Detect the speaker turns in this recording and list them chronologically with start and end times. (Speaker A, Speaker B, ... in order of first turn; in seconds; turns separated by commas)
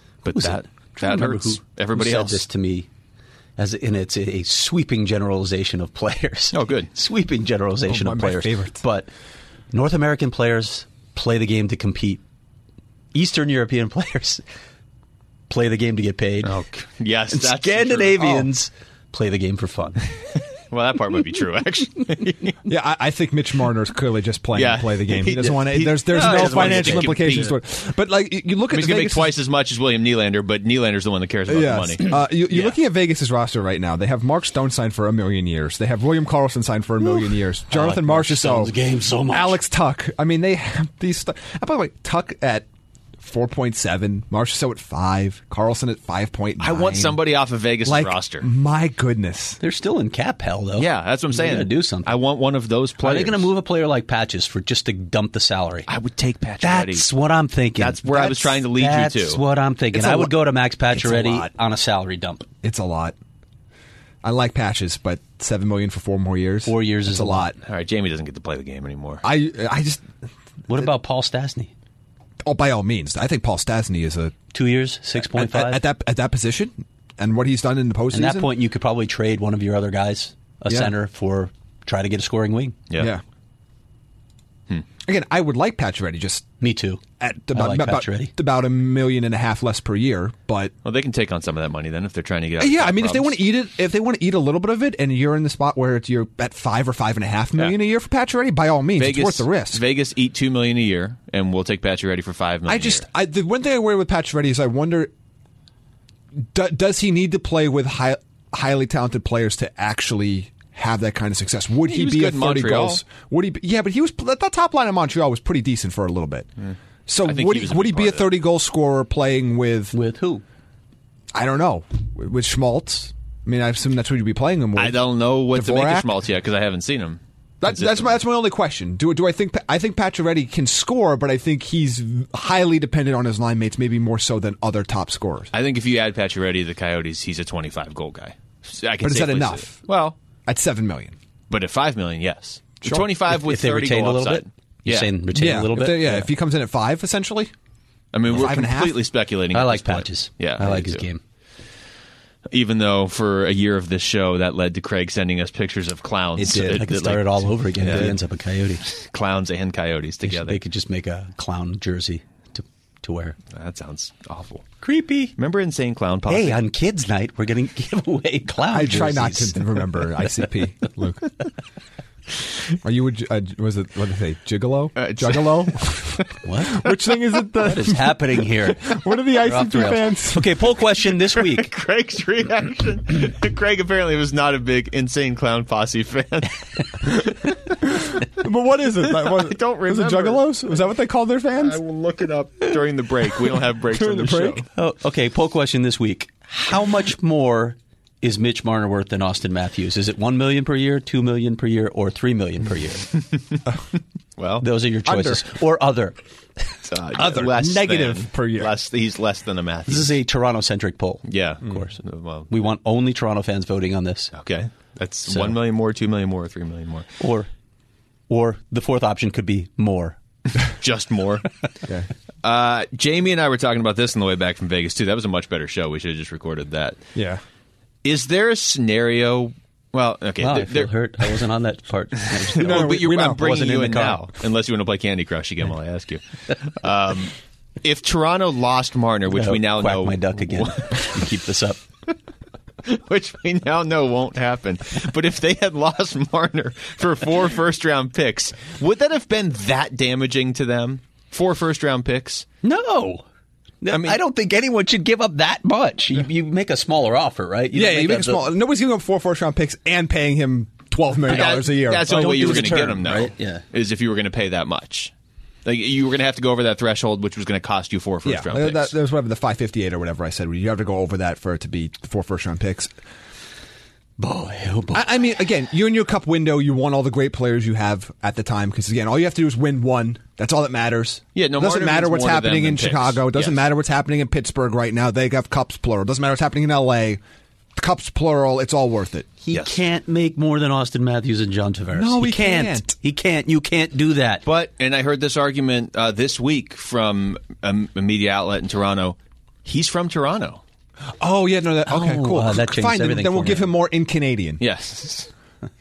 Speaker A: 0.2-2.4, Speaker B: 0.3-2.9, Speaker B: 3.6-9.1, Speaker A: 6.5-6.9, Speaker C: 7.9-8.8, Speaker B: 9.7-12.2, Speaker B: 13.1-14.4, Speaker B: 15.5-16.6, Speaker A: 16.4-18.5, Speaker B: 17.3-20.0, Speaker A: 20.7-22.6, Speaker C: 22.6-29.3, Speaker A: 24.5-27.6, Speaker B: 26.1-27.5, Speaker A: 28.7-32.7, Speaker C: 31.5-38.7, Speaker B: 37.7-39.6, Speaker C: 39.3-42.6, Speaker C: 43.2-47.2, Speaker A: 46.6-48.5, Speaker C: 47.8-49.6, Speaker B: 49.6-52.1, Speaker A: 50.8-53.5, Speaker B: 53.0-55.9, Speaker A: 55.9-57.1, Speaker B: 56.6-62.5, Speaker A: 57.8-59.4, Speaker C: 59.9-60.4, Speaker C: 60.9-61.5, Speaker C: 62.6-63.1, Speaker C: 64.2-67.5, Speaker B: 66.7-67.5, Speaker A: 67.6-69.2, Speaker C: 69.2-70.0, Speaker B: 70.7-71.7, Speaker C: 72.4-74.3, Speaker B: 74.5-75.8, Speaker C: 75.2-78.5, Speaker B: 78.1-82.8, Speaker C: 85.0-86.5, Speaker B: 86.6-87.0, Speaker C: 87.2-90.7, Speaker B: 87.5-88.3, Speaker A: 90.8-93.4, Speaker C: 92.6-99.8, Speaker A: 99.0-103.0, Speaker C: 102.7-105.1, Speaker C: 106.5-116.5, Speaker A: 111.8-113.0, Speaker A: 116.6-118.3, Speaker C: 117.1-119.9, Speaker B: 119.9-120.4, Speaker C: 121.3-125.0, Speaker A: 124.8-128.1, Speaker C: 125.5-126.1, Speaker C: 127.6-135.5, Speaker A: 135.5-140.2, Speaker C: 139.0-139.8, Speaker C: 140.4-141.2, Speaker A: 141.5-145.1, Speaker B: 143.3-146.3, Speaker C: 145.3-147.5, Speaker A: 148.1-151.1, Speaker C: 148.3-149.0, Speaker B: 149.5-151.2, Speaker A: 152.5-158.2, Speaker C: 156.4-156.9, Speaker B: 156.4-158.8, Speaker C: 157.8-158.2, Speaker A: 158.8-160.6, Speaker B: 160.2-163.4, Speaker A: 163.5-164.7, Speaker B: 164.8-165.3, Speaker A: 165.4-166.6, Speaker B: 166.3-169.8, Speaker C: 168.7-171.3, Speaker C: 172.8-180.6, Speaker A: 175.0-176.2, Speaker B: 176.4-176.9, Speaker B: 177.6-181.7, Speaker A: 181.2-187.6, Speaker C: 187.8-191.8, Speaker A: 189.1-190.8, Speaker A: 191.6-194.7, Speaker C: 193.9-194.6, Speaker B: 194.7-203.1, Speaker A: 204.4-204.7, Speaker B: 204.6-206.2, Speaker C: 205.1-205.4, Speaker A: 206.8-210.2, Speaker C: 207.2-208.7, Speaker B: 209.9-212.0, Speaker A: 211.2-212.7, Speaker B: 212.5-214.3, Speaker A: 214.3-217.1, Speaker B: 215.3-215.5, Speaker B: 217.2-217.5, Speaker B: 218.3-220.2, Speaker A: 220.6-221.5, Speaker A: 222.4-227.0, Speaker C: 227.1-227.4, Speaker A: 228.0-230.9, Speaker B: 230.4-234.2, Speaker A: 232.5-241.1, Speaker C: 232.6-233.5, Speaker B: 239.3-241.8, Speaker A: 242.8-252.4, Speaker B: 252.6-253.2, Speaker B: 253.8-258.5, Speaker A: 253.9-254.2, Speaker C: 257.7-262.3, Speaker A: 261.3-265.1, Speaker B: 262.0-263.6, Speaker A: 265.6-268.9, Speaker C: 268.2-272.9, Speaker B: 274.2-275.1, Speaker C: 274.9-287.2, Speaker A: 281.4-283.6, Speaker C: 287.8-289.3, Speaker B: 289.4-294.4, Speaker A: 289.5-289.8, Speaker C: 291.9-292.9, Speaker A: 294.4-300.6, Speaker C: 301.2-304.6, Speaker B: 301.9-303.7, Speaker A: 304.6-305.3